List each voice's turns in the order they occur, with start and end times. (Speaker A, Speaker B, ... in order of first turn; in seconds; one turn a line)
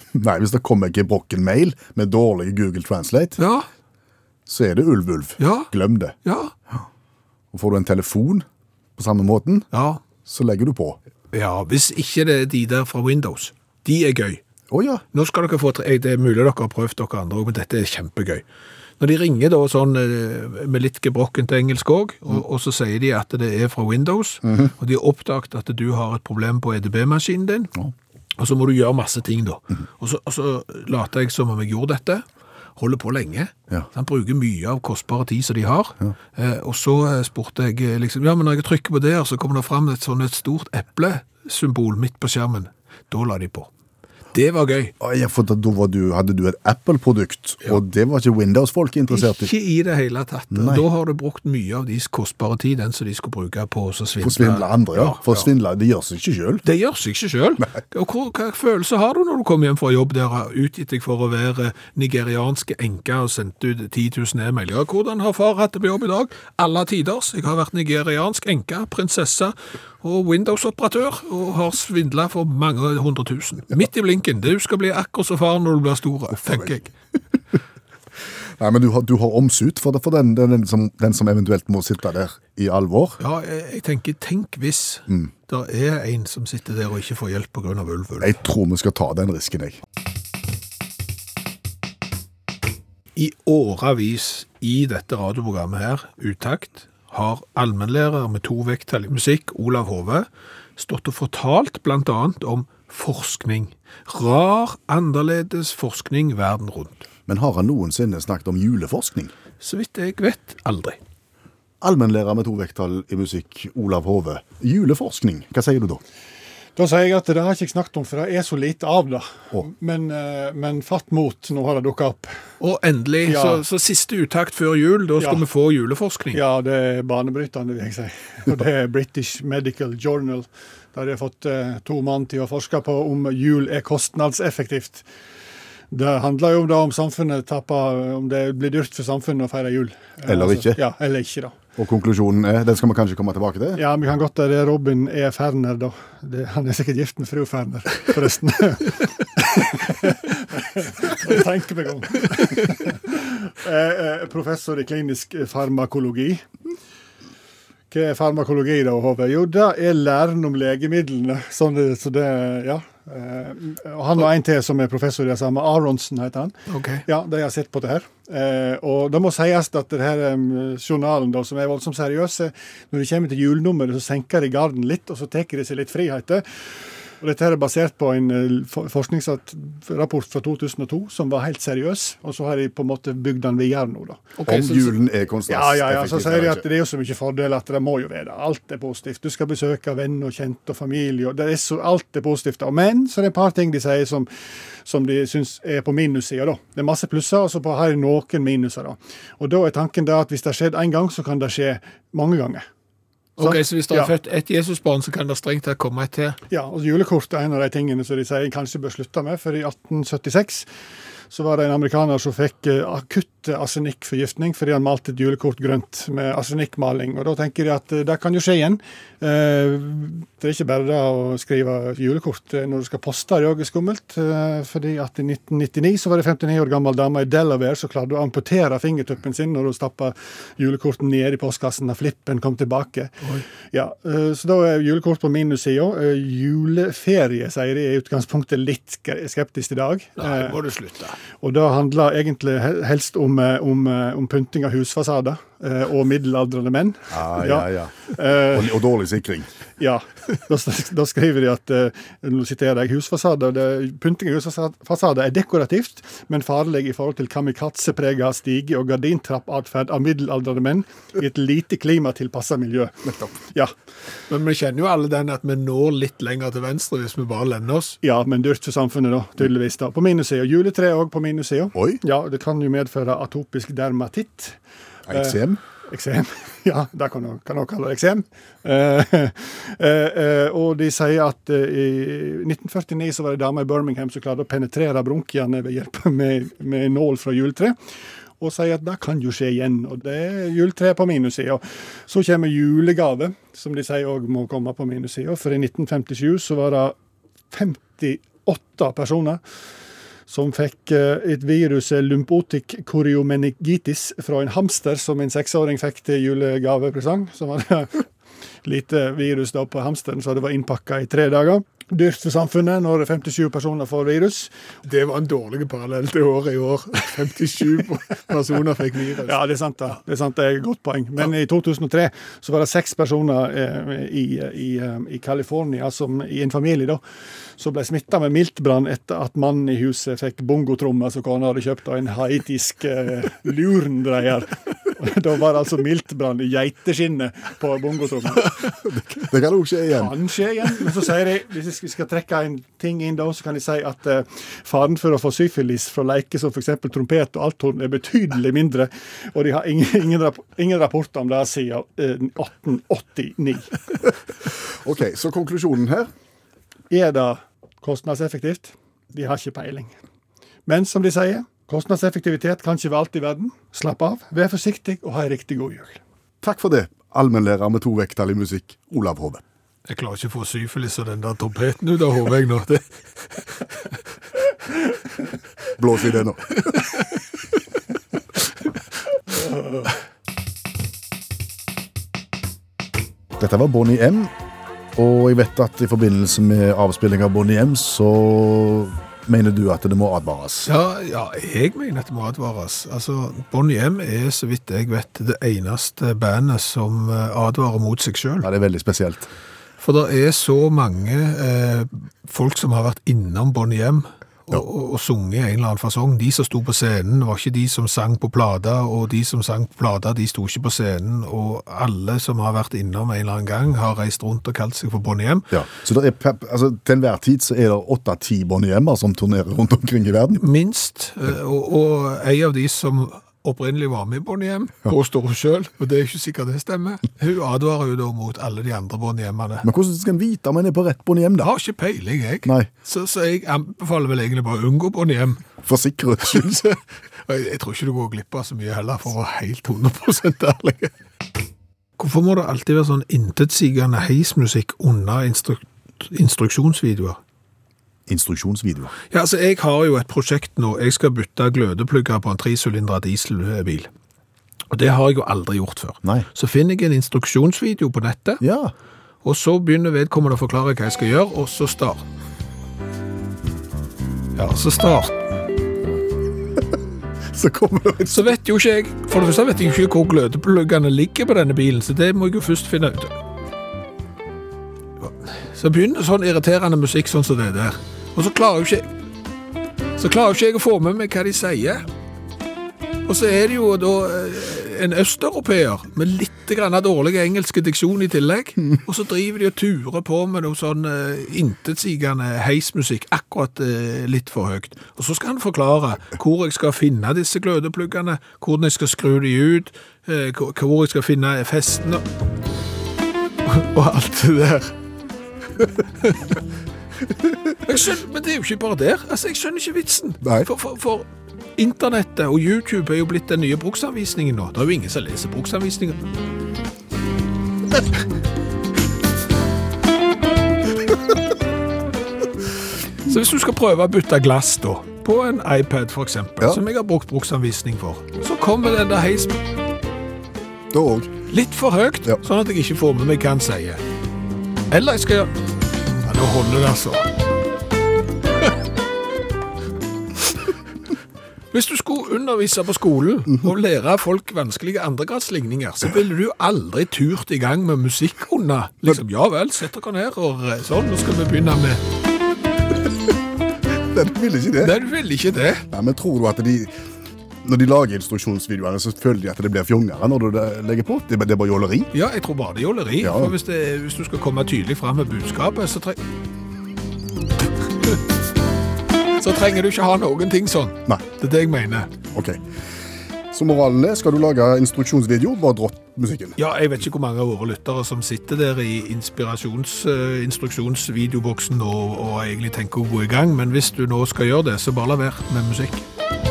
Speaker A: 0.1-3.4
Speaker B: 3.4-3.7
Speaker A: 4.5-6.2
Speaker B: 5.4-5.7
Speaker B: 6.2-6.5
Speaker A: 7.5-8.4
Speaker A: 9.0-9.7
Speaker B: 9.7-10.0
Speaker A: 10.2-11.0
Speaker B: 11.3-14.4
Speaker A: 14.7-15.0
Speaker B: 15.1-18.4
Speaker B: 19.0-27.7
Speaker B: 28.4-32.2
Speaker B: 32.8-43.7
Speaker B: 44.3-44.9
Speaker A: 45.0-49.5
Speaker B: 49.1-55.5
Speaker A: 50.5-50.9
Speaker A: 54.2-56.6
Speaker B: 56.6-76.9
Speaker A: 78.6-83.2
Speaker B: 83.2-88.3
Speaker A: 88.2-89.8
Speaker B: 93.2-107.1
Speaker A: 107.3-109.3
Speaker B: 109.6-111.0
Speaker A: 111.8-116.0
Speaker C: 116.8-122.3
Speaker B: 122.6-126.4
Speaker C: 123.2-123.6
Speaker C: 125.2-125.4
Speaker C: 126.3-135.1
Speaker C: 135.9-141.6
Speaker A: 140.2-140.8
Speaker A: 141.8-143.8
Speaker C: 143.7-156.4
Speaker C: 157.9-166.5
Speaker B: 166.7-167.0
Speaker C: 167.1-176.4
Speaker C: 177.2-184.3
Speaker B: 184.4-184.9
Speaker A: 184.5-186.6
Speaker C: 185.5-194.3
Speaker C: 194.8-202.6
Speaker C: 203.4-204.1
Speaker B: 203.4-206.4
Speaker C: 206.5-210.7
Speaker C: 211.3-233.1
Speaker C: 233.7-240.6
Speaker B: 240.2-241.2
Speaker C: 241.4-248.7
Speaker A: 247.1-249.5
Speaker C: 249.8-263.7
Speaker A: 263.1-263.3
Speaker B: 264.3-268.0
Speaker C: 268.0-274.6
Speaker A: 271.7-272.0
Speaker A: 275.1-275.6
Speaker C: 275.1-287.8
Speaker C: 288.4-296.9
Speaker C: 297.5-299.4
Speaker C: 300.3-308.0
Speaker C: 308.6-314.5
Speaker B: 314.9-319.4
Speaker C: 319.2-327.0
Speaker C: 327.6-338.5
Speaker A: 338.8-340.2
Speaker C: 339.9-353.8
Speaker A: 354.8-356.1
Speaker C: 356.9-359.9
Speaker C: 360.6-366.0
Speaker A: 366.4-369.4
Speaker B: 369.9-372.9
Speaker A: 375.8-376.8
Speaker A: 383.4-384.3
Speaker A: 384.9-390.7
Speaker B: 390.6-398.5
Speaker A: 398.4-399.3
Speaker B: 399.8-415.5
Speaker A: 415.5-420.4
Speaker B: 420.4-429.7
Speaker A: 429.6-431.5
Speaker B: 431.4-435.4
Speaker A: 432.4-432.7
Speaker A: 435.6-436.6
Speaker B: 436.3-440.9
Speaker B: 442.0-447.2
Speaker A: 448.1-448.9
Speaker B: 449.1-453.9
Speaker B: 454.7-458.4
Speaker A: 458.4-458.7
Speaker B: 459.2-462.1
Speaker B: 464.3-465.2
Speaker A: 467.3-468.3
Speaker B: 468.1-473.1
Speaker B: 475.0-478.9
Speaker B: 480.0-481.9
Speaker B: 483.1-502.0
Speaker B: 503.4-504.7
Speaker B: 507.6-516.1
Speaker A: 510.2-510.5
Speaker B: 523.0-529.4
Speaker A: 530.7-531.1
Speaker B: 531.3-533.8
Speaker B: 534.7-537.1
Speaker B: 541.5-551.8
Speaker A: 553.7-554.8
Speaker B: 554.6-555.6
Speaker A: 555.7-556.7
Speaker A: 557.4-561.9
Speaker B: 561.9-566.0
Speaker A: 563.0-563.3
Speaker B: 569.2-571.9
Speaker A: 572.1-572.4
Speaker A: 573.3-576.4
Speaker B: 576.4-585.9